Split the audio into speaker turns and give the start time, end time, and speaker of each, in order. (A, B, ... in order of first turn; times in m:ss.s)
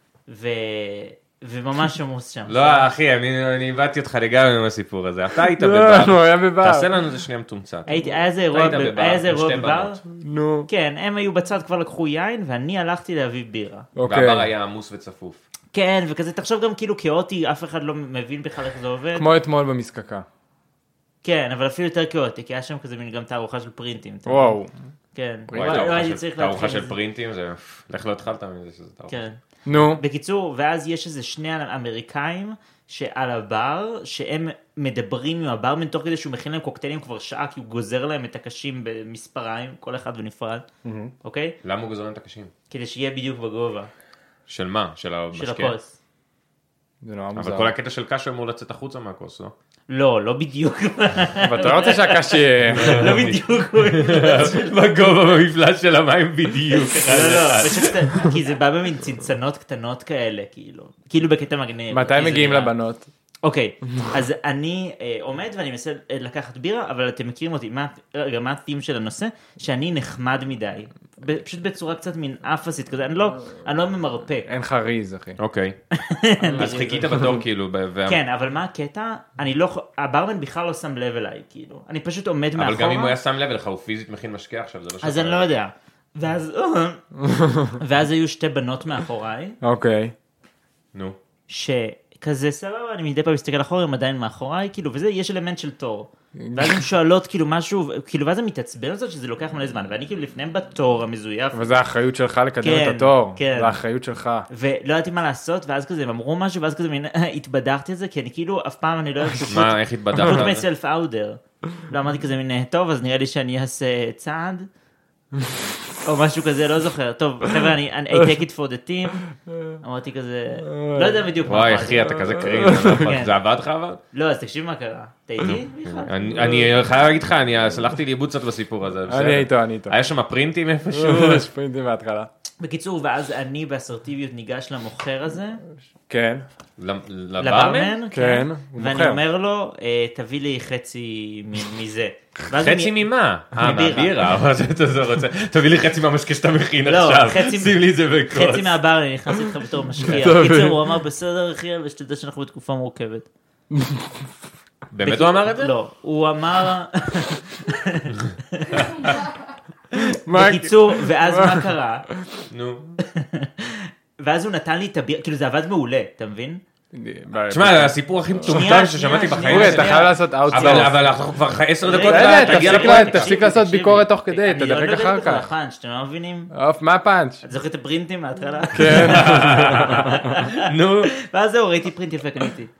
0:00.3-0:02.9 A
0:02.5-0:10.0 B
0:05.6-0:06.9 C
0:07.9-0:10.0 A
0:10.2-0:10.7 C
0:10.7-0:13.9 A
0:14.0-0:14.5 C
0:14.0-0:15.4 B
0:15.7-0:19.2 A
0:19.2-0:20.2 C
0:21.2-0:24.6 A
0:24.2-0:24.7 C
0:25.1-0:26.9 A
0:25.5-0:25.9 C
0:25.5-0:29.2 B
0:29.1-0:40.6 A
0:29.6-0:30.0 C
0:40.8-0:41.1 C
0:41.2-0:41.5 A
0:41.6-0:42.5 B
0:42.7-0:43.9 A
0:44.5-0:45.7 B
0:45.3-0:45.9 A
0:47.0-0:47.7 C
0:47.3-0:49.5 B
0:49.9-0:54.7 A
0:51.4-0:53.2 C
0:52.7-0:58.0 B
0:56.9-1:02.7 A
1:01.9-1:03.1 C
1:03.4-1:14.5 A
1:14.5-1:15.4 C
1:15.4-1:15.8 B
1:15.9-1:17.2 A
1:16.5-1:18.2 B
1:18.1-1:23.1 A
1:22.6-1:25.5 B
1:25.0-1:27.0 A
1:27.2-1:27.8 C
1:27.8-1:29.6 A
1:29.6-1:30.1 C
1:31.5-1:41.7 A
1:36.4-1:36.8 C
1:41.5-1:44.5 C
1:42.6-1:43.8 A
1:44.5-1:54.7 A
1:49.5-1:50.6 B
1:56.0-1:59.2 A
1:59.8-2:03.4 A
2:00.6-2:01.2 C
2:01.4-2:04.0 B
2:02.2-2:03.2 C
2:04.1-2:06.7 A
2:05.4-2:11.5 B
2:09.1-2:09.9 C
2:10.9-2:12.3 C
2:12.6-2:15.6 A
2:16.1-2:16.4 C
2:16.8-2:17.9 B
2:17.4-2:24.2 A
2:18.1-2:19.2 C
2:22.6-2:28.8 B
2:26.8-2:33.3 A
2:30.0-2:30.8 C
2:33.7-2:34.1 C
2:34.9-2:35.7 B
2:35.0-2:39.1 A
2:38.3-2:39.2 B
2:40.0-2:42.4 C
2:40.3-2:42.0 A
2:42.5-2:43.0 B
2:43.0-2:46.6 A
2:46.9-2:48.0 C
2:47.5-2:53.4 B
2:48.4-2:50.9 A
2:49.5-2:51.0 C
2:51.8-2:56.5 A
2:52.0-2:55.5 C
2:56.5-2:57.4 C
2:57.4-3:02.7 A
2:58.7-3:00.2 C
2:58.9-3:01.1 B